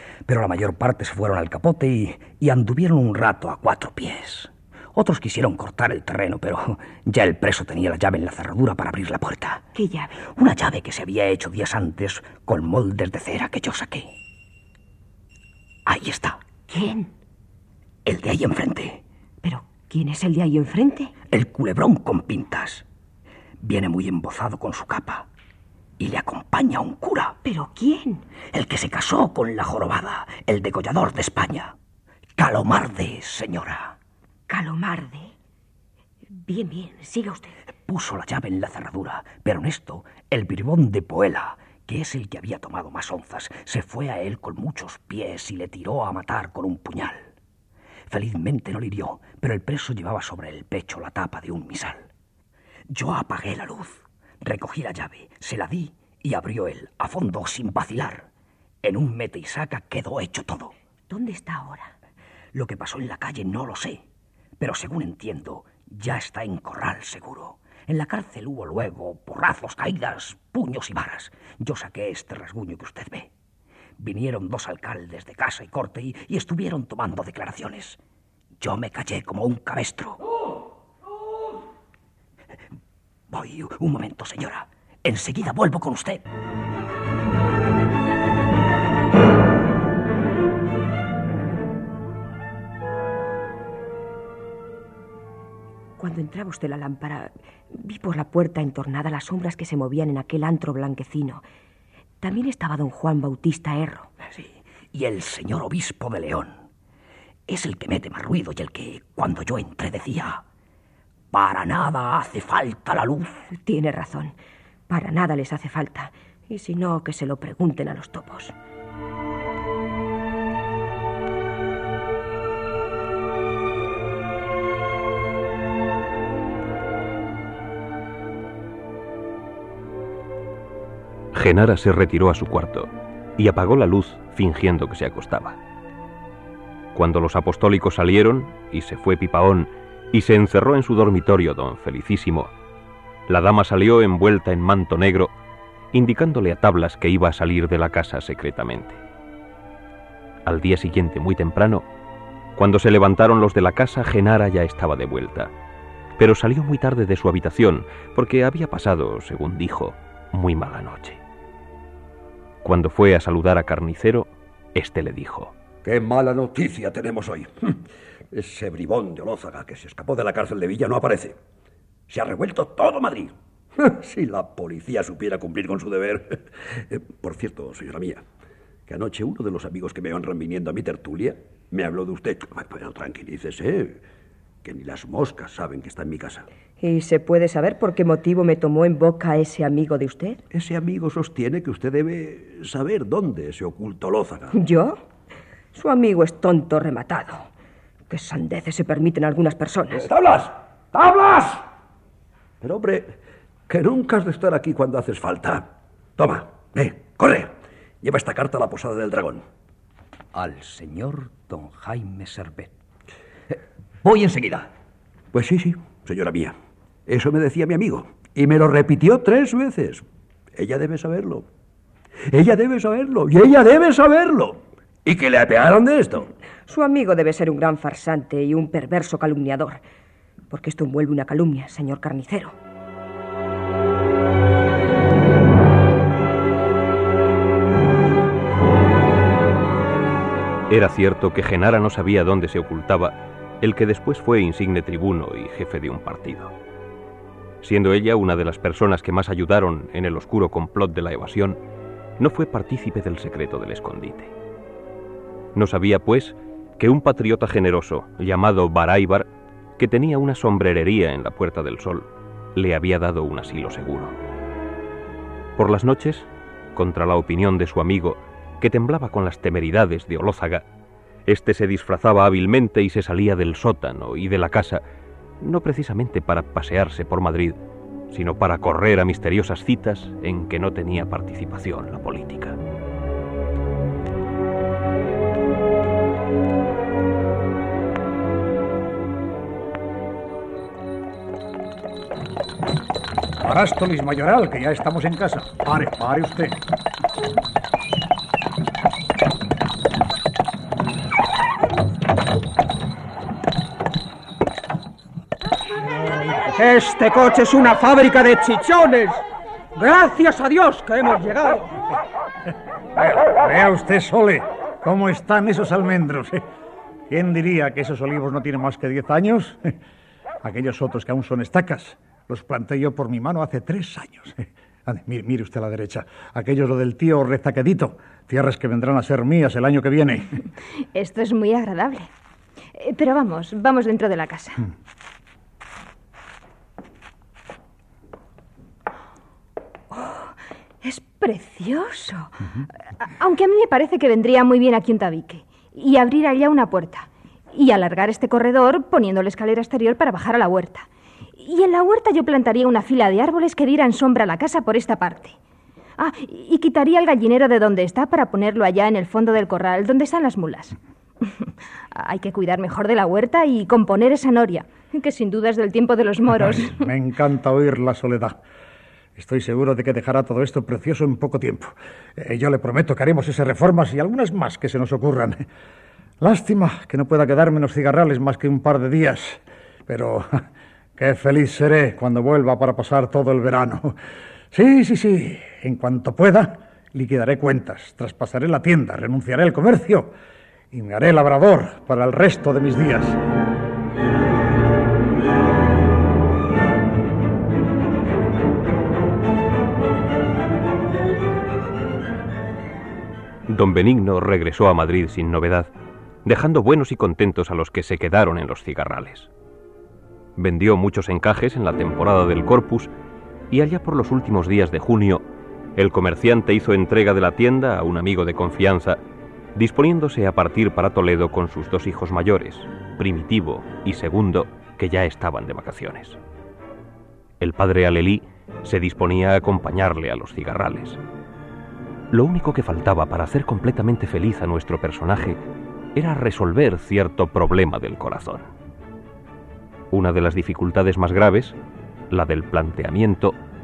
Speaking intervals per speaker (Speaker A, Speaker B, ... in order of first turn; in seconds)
Speaker A: 0.2-9.6, 10.2-14.1, 15.8-16.6, 18.1-19.0, 21.2-22.8, 23.6-25.3, 26.0-27.4, 28.4-31.7, 32.4-34.0, 37.9-47.3, 48.1-52.1, 52.9-58.2, 58.8-60.7, 62.5-64.0, 64.6-73.3, 74.0-78.0, 78.6-80.2, 83.3-86.2, 104.3-106.6, 107.5-110.4, 111.3-113.4, 210.3-212.7, 214.0-214.7
Speaker B: 9.7-10.2, 16.7-17.1, 19.4-21.2, 27.4-28.3, 34.5-35.3, 36.4-37.5, 61.1-61.9, 96.0-101.4, 102.2-104.1, 113.5-114.3, 114.9-118.5, 186.8-190.4, 194.5-195.0, 195.7-197.4, 198.1-200.1, 226.7-229.8, 230.5-232.5
Speaker C: 131.3-135.6, 136.9-142.5, 143.3-145.3, 145.9-149.0, 150.4-151.9, 152.5-155.5, 156.2-161.2, 162.6-165.5, 240.7-246.5, 247.6-251.6, 252.2-254.3, 255.5-264.1, 265.6-270.6, 271.3-274.8, 275.4-277.6, 278.1-282.6, 403.5-405.7, 406.2-409.3, 410.4-412.9, 413.5-415.2, 415.8-419.0, 419.5-426.2, 427.4-431.0, 432.1-435.4, 435.9-438.5, 439.9-441.6, 442.1-443.4
Speaker D: 165.8-167.8, 168.3-171.4, 172.1-178.2, 178.9-184.0, 184.6-186.4, 190.5-194.6, 199.9-201.6, 202.6-203.2, 203.7-209.4, 215.3-216.5, 217.1-220.0, 220.5-221.4, 222.3-226.3
Speaker E: 293.4-296.6, 313.0-316.4, 317.1-319.7, 320.4-330.4, 366.7-368.4, 369.1-375.4, 376.2-380.4, 381.0-383.9, 384.5-390.1, 390.7-393.2
Speaker F: 306.5-309.2, 309.8-311.8
Speaker G: 330.9-332.1, 332.7-334.7, 339.9-340.3, 340.8-355.4, 356.0-366.9